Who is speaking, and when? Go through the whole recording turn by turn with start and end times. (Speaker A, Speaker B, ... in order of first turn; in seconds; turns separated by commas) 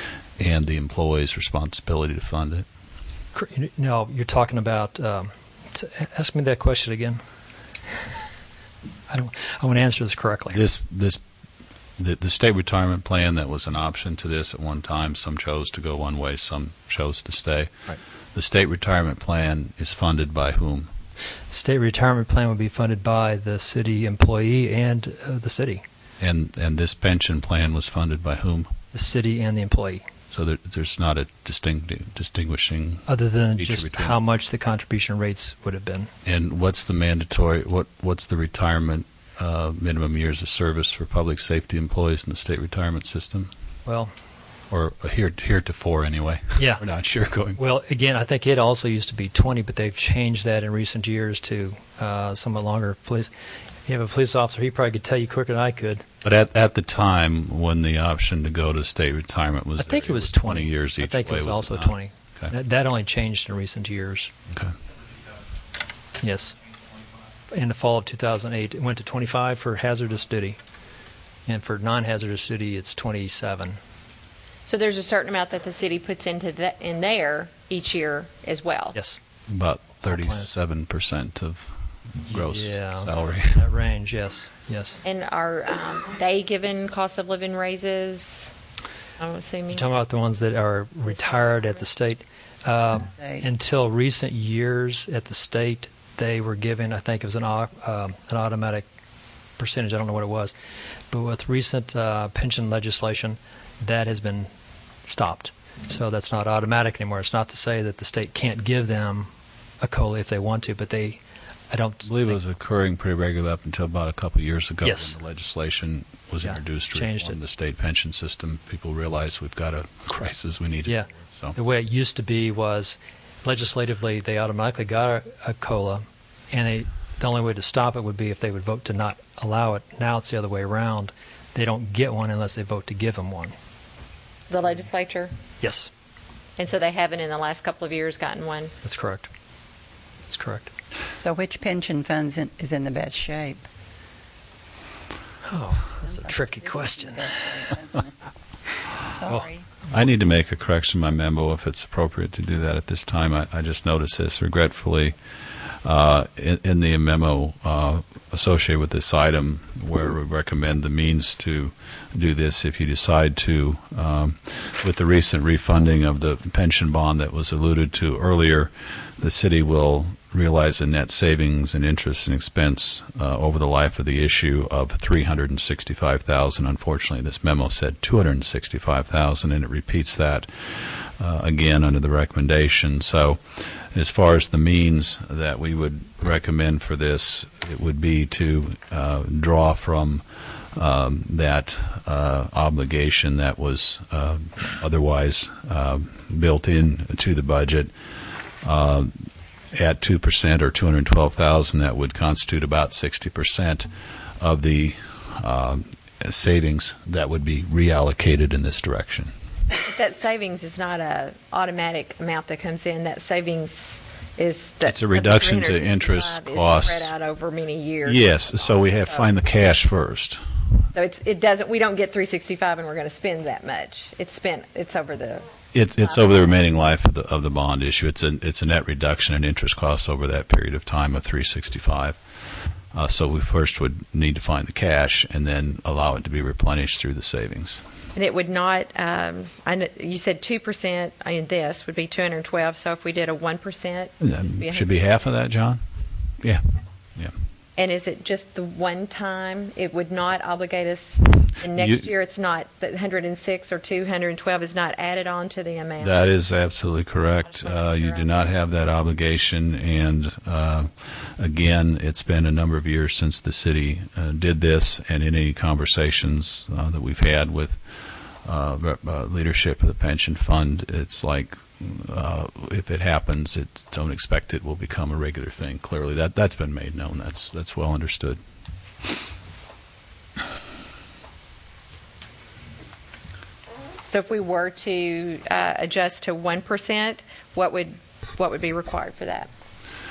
Speaker A: 0.4-2.6, Speaker B: 3.3-7.2, Speaker B: 9.1-10.6, Speaker A: 10.5-11.2, Speaker A: 12.0-17.7, Speaker A: 18.3-20.9, Speaker B: 21.5-25.8, Speaker A: 26.2-28.7, Speaker B: 28.9-30.0, Speaker A: 30.3-33.1, Speaker B: 33.1-36.1, Speaker A: 33.6-34.2, Speaker A: 36.2-43.5, Speaker B: 43.8-44.1, Speaker A: 44.7-47.6, Speaker B: 46.6-46.8, Speaker B: 47.6-53.3, Speaker B: 53.9-56.0, Speaker A: 56.2-62.5, Speaker B: 59.8-64.3, Speaker B: 66.2-66.6, Speaker B: 67.5-70.6, Speaker B: 71.5-73.8, Speaker C: 74.7-79.0, Speaker B: 78.9-79.2, Speaker A: 79.5-83.6, Speaker B: 80.0-80.5, Speaker B: 82.3-85.0, Speaker C: 85.0-88.5, Speaker C: 89.2-89.9, Speaker B: 89.7-98.8, Speaker C: 91.0-91.8, Speaker D: 93.2-93.4, Speaker B: 99.6-100.5, Speaker B: 101.1-104.5, Speaker B: 105.0-109.3, Speaker B: 109.8-112.2, Speaker A: 112.0-121.5, Speaker B: 114.8-115.2, Speaker B: 116.4-117.4, Speaker B: 120.8-133.5, Speaker C: 134.5-135.3, Speaker B: 135.6-135.9, Speaker C: 136.6-138.7, Speaker B: 138.8-139.3, Speaker B: 140.3-140.7, Speaker D: 141.1-143.7, Speaker B: 145.4-147.3, Speaker D: 145.9-148.1, Speaker D: 149.1-149.7, Speaker A: 149.9-155.1, Speaker A: 155.8-197.9, Speaker A: 198.6-203.9, Speaker A: 204.4-209.3, Speaker C: 209.8-219.3, Speaker A: 214.8-217.1, Speaker A: 218.0-220.4, Speaker C: 220.9-226.4, Speaker A: 225.7-232.2, Speaker A: 232.9-237.8, Speaker C: 238.1-245.1, Speaker A: 244.2-245.8, Speaker C: 247.8-256.2, Speaker A: 251.8-252.1, Speaker A: 256.0-267.8, Speaker C: 257.5-258.3, Speaker A: 268.4-278.4, Speaker C: 284.1-289.5